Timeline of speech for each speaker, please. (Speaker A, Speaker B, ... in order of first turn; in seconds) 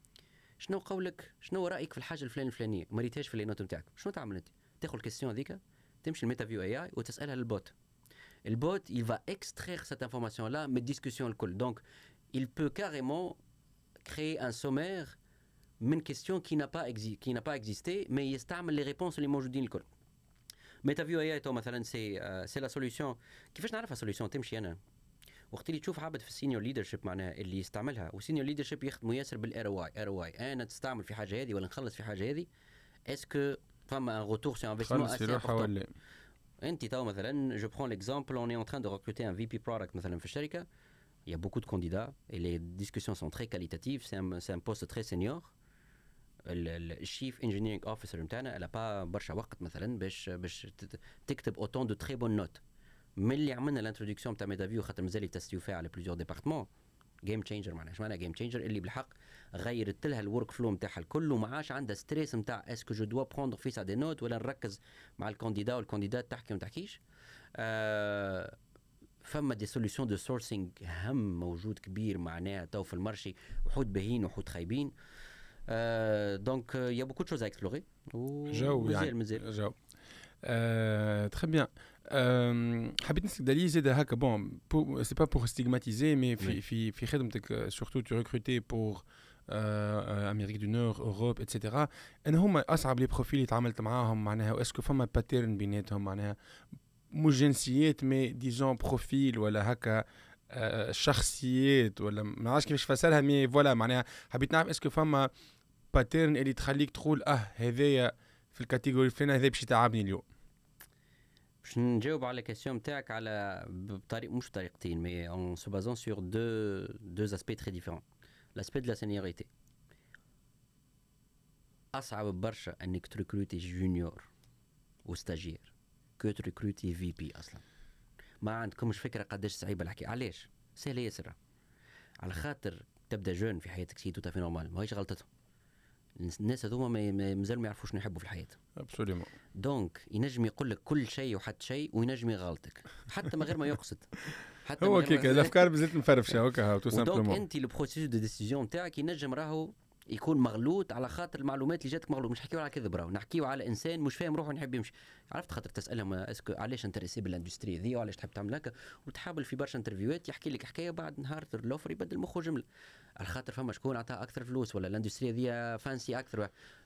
Speaker A: 0.6-7.7, 8.5-11.8, 12.3-13.4, 14.0-15.2, 15.8-19.9, 20.8-24.8, 25.5-32.5, 33.1-35.7, 36.6-40.7, 41.3-45.5, 46.5-52.6, 53.2-56.7, 57.3-67.0, 67.6-68.6, 69.2-74.9, 75.7-79.4, 111.6-118.0, 118.5-119.5, 121.9-124.3, 125.1-127.6, 128.4-131.4, 132.2-135.3, 136.2-138.6, 139.6-145.6, 146.9-162.7, 163.2-166.5
Speaker B: 34.8-35.9, 78.5-79.8, 80.4-96.4, 97.1-105.3, 105.9-110.3, 138.8-139.3, 144.8-147.4